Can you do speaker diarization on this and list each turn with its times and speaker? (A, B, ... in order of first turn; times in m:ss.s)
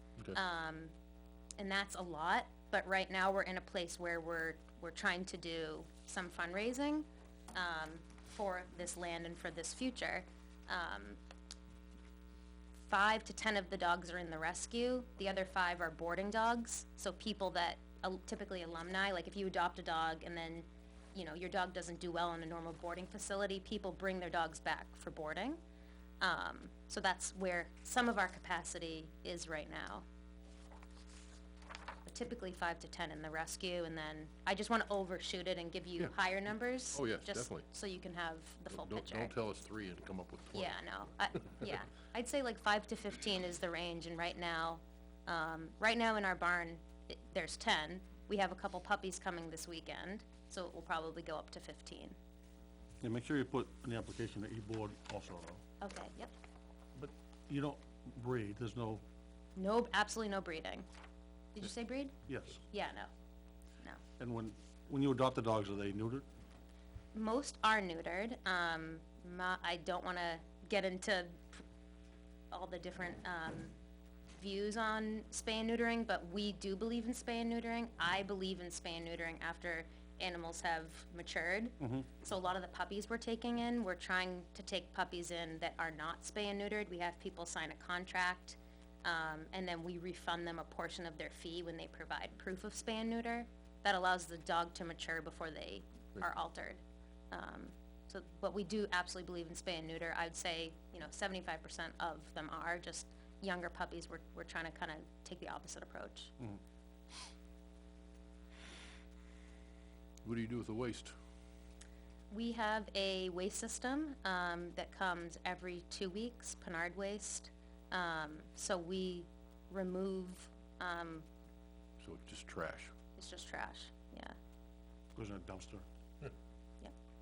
0:00.3-0:00.9 A
0:01.6-0:11.2 A
0:12.9-0:25.6 A
0:26.2-0:30.0 A
0:32.0-0:39.3 A
0:36.9-0:37.7 B
0:38.7-0:40.8 B
0:40.5-0:52.2 A
0:53.0-0:55.6 C
0:55.8-0:56.3 A
0:56.9-0:59.0 C
0:59.6-1:00.9 A
1:01.5-1:02.1 A
1:02.2-1:02.6 C
1:02.7-1:03.1 A
1:04.2-1:06.2 C
1:07.1-1:11.6 A
1:12.5-1:13.7 A
1:14.3-1:46.3 A
1:21.8-1:22.1 C
1:50.2-1:51.1 B
1:52.3-2:01.3 A
2:02.0-2:02.9 B
2:03.2-2:04.4 A
2:05.2-2:05.8 C